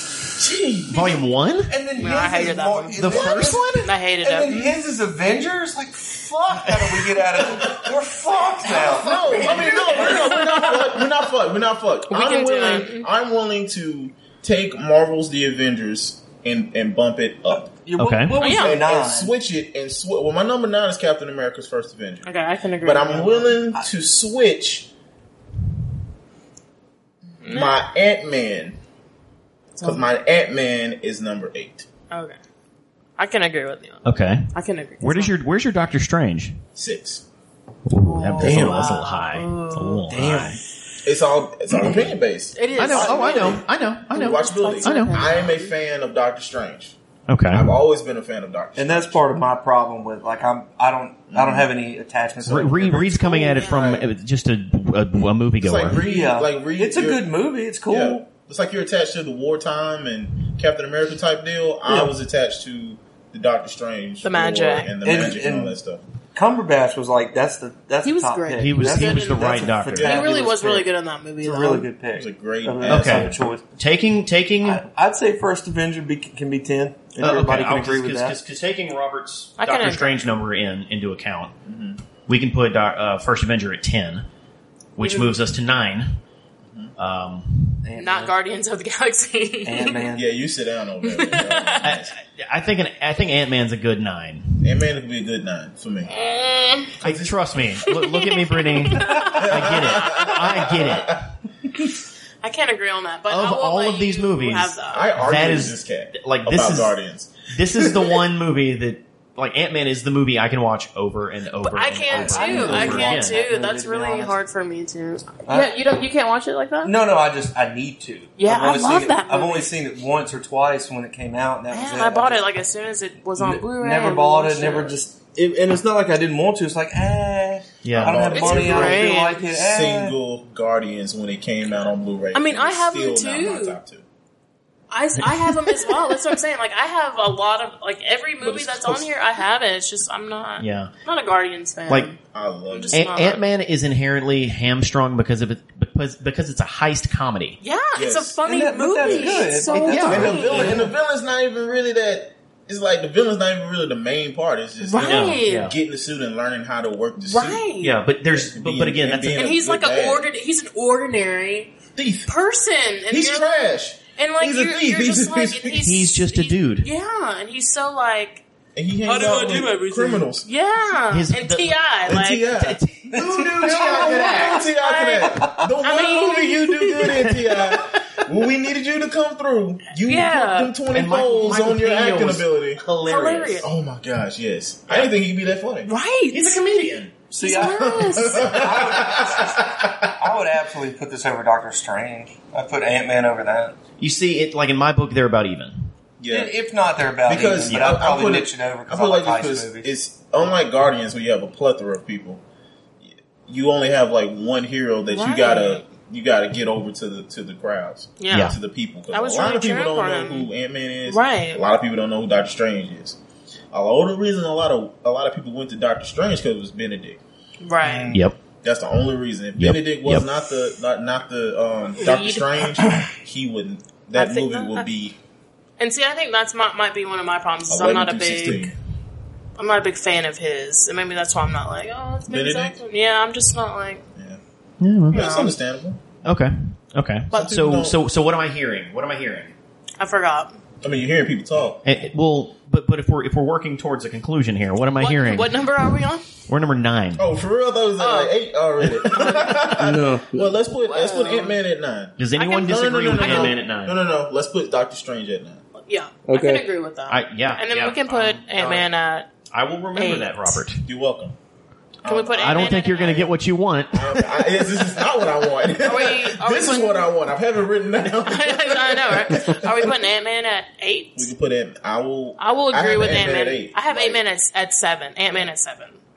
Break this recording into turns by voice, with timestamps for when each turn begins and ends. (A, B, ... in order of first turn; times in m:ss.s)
0:00.3-0:01.2 A
0:00.9-0:01.7 B
0:01.7-0:10.2 C
0:02.0-0:04.7 D
0:03.0-0:03.9 B
0:08.7-0:10.3 B
0:08.7-0:17.7 A
0:09.9-0:10.9 D
0:12.1-0:13.1 D
0:17.5-0:19.3 C
0:18.0-0:18.4 B
0:18.4-0:18.8 D
0:18.4-0:24.9 A
0:22.2-0:23.5 D
0:27.4-0:27.8 D
0:27.5-0:28.8 A
0:29.8-0:30.0 D
0:29.8-0:31.8 A
0:32.1-0:32.4 D
0:33.2-0:35.3 D
0:34.0-0:36.6 B
0:36.8-0:37.2 A
0:37.8-0:40.6 B
0:38.0-0:40.1 D
0:38.4-0:38.8 C
0:38.4-0:38.7 A
0:40.1-0:40.6 C
0:41.0-0:47.0 A
0:42.5-0:45.7 D
0:42.7-0:45.2 B
0:47.3-0:47.7 B
0:47.5-0:49.2 A
0:48.8-0:53.3 C
0:51.3-0:51.7 A
0:52.4-0:56.0 B
0:53.2-0:54.0 D
0:53.5-0:54.1 A
0:55.6-0:57.3 A
0:56.0-0:58.2 C
0:57.9-1:06.0 A
1:01.8-1:02.1 C
1:04.2-1:05.0 D
1:05.0-1:05.8 C
1:06.3-1:10.8 C
1:08.0-1:11.9 D
1:08.6-1:10.2 B
1:09.9-1:10.8 A
1:11.4-1:13.6 C
1:12.1-1:13.5 A
1:12.8-1:14.8 B
1:14.6-1:18.4 C
1:17.2-1:21.5 B
1:19.6-1:20.4 D
1:21.6-1:22.0 A
1:22.3-1:24.2 B
1:24.9-1:26.2 B
1:26.7-1:26.9 A
1:27.0-1:27.8 B
1:27.8-1:28.3 C
1:28.0-1:30.0 D
1:29.6-1:30.3 C
1:30.1-1:32.1 A
1:31.0-1:31.9 D
1:31.8-1:34.8 B
1:34.6-1:36.1 A
1:36.1-1:37.0 D
1:37.0-1:37.9 A
1:37.0-1:41.3 B
1:37.9-1:40.7 D
1:39.2-1:41.3 A
1:42.4-1:45.2 D
1:43.3-1:47.0 B
1:44.9-1:48.2 A
1:47.5-1:53.4 B
1:51.6-1:56.9 D
1:52.1-1:54.4 C
1:55.4-1:55.7 C
1:56.8-2:02.4 C
1:58.4-1:59.7 D
2:01.7-2:05.0 D
2:03.4-2:10.2 C
2:07.8-2:08.3 B
2:07.9-2:14.0 A
2:08.3-2:09.4 D
2:12.3-2:13.8 D
2:14.9-2:22.2 D
2:15.2-2:16.0 B
2:18.4-2:19.1 A
2:20.6-2:20.9 B
2:22.3-2:23.0 A
2:22.7-2:23.4 D
2:22.9-2:27.6 B
2:27.6-2:30.8 D
2:27.9-2:28.4 A
2:28.4-2:30.9 C
2:29.0-2:29.4 A
2:29.7-2:30.6 B
2:30.0-2:37.7 A
2:34.8-2:35.7 D
2:35.0-2:35.7 B
2:37.2-2:38.0 D
2:37.8-2:39.4 B
2:38.2-2:40.2 A
2:39.3-2:48.4 D
2:42.0-2:42.3 A
2:43.1-2:45.8 A
2:45.8-2:46.9 B
2:48.7-2:50.5 A
2:49.0-2:52.5 D
2:51.1-2:54.6 B
2:52.0-2:52.8 A
2:53.1-2:54.4 C
2:53.3-3:02.8 A
2:53.9-2:57.4 D
2:55.3-2:55.6 C
3:00.0-3:00.7 D
3:00.9-3:03.7 B
3:03.0-3:03.7 D
3:03.6-3:05.9 A
3:05.8-3:06.6 D
3:06.3-3:07.1 B
3:07.3-3:13.8 C
3:07.4-3:08.7 D
3:07.8-3:09.6 A
3:14.0-3:15.9 B
3:16.2-3:16.5 A
3:16.3-3:19.9 C
3:17.2-3:22.4 A
3:17.7-3:18.0 B
3:23.0-3:33.2 A
3:25.1-3:25.8 D
3:28.2-3:28.5 D
3:29.1-3:30.5 D
3:31.1-3:31.6 D
3:33.7-3:37.2 A
3:37.6-3:38.1 D
3:37.8-3:38.2 C
3:38.6-3:45.2 A
3:39.6-3:40.2 B
3:42.0-3:42.6 D
3:44.2-3:44.8 D
3:45.8-3:48.7 D
3:47.7-3:48.7 A
3:49.6-3:54.0 D
3:52.3-3:52.8 A
3:54.8-3:55.3 B
3:55.1-3:56.0 A
3:55.1-3:55.5 D
3:56.2-3:59.5 B
3:57.3-3:58.0 A
4:00.0-4:00.6 D
4:00.8-4:01.8 A
4:01.8-4:05.6 B
4:05.0-4:06.2 D
4:06.5-4:07.2 B
4:07.2-4:15.6 A
4:08.0-4:08.3 D
4:09.0-4:09.6 D
4:09.8-4:10.5 C
4:10.7-4:11.6 D
4:12.2-4:14.0 B
4:12.4-4:13.6 D
4:15.7-4:19.3 D
4:16.2-4:16.6 C
4:17.1-4:18.8 B
4:19.5-4:20.8 B
4:20.0-4:20.6 D
4:20.8-4:21.3 A
4:22.0-4:23.3 A
4:22.0-4:23.3 D
4:22.4-4:24.4 B
4:23.9-4:30.0 A
4:25.8-4:27.1 D
4:28.2-4:31.3 D
4:31.2-4:34.2 A
4:32.4-4:36.0 D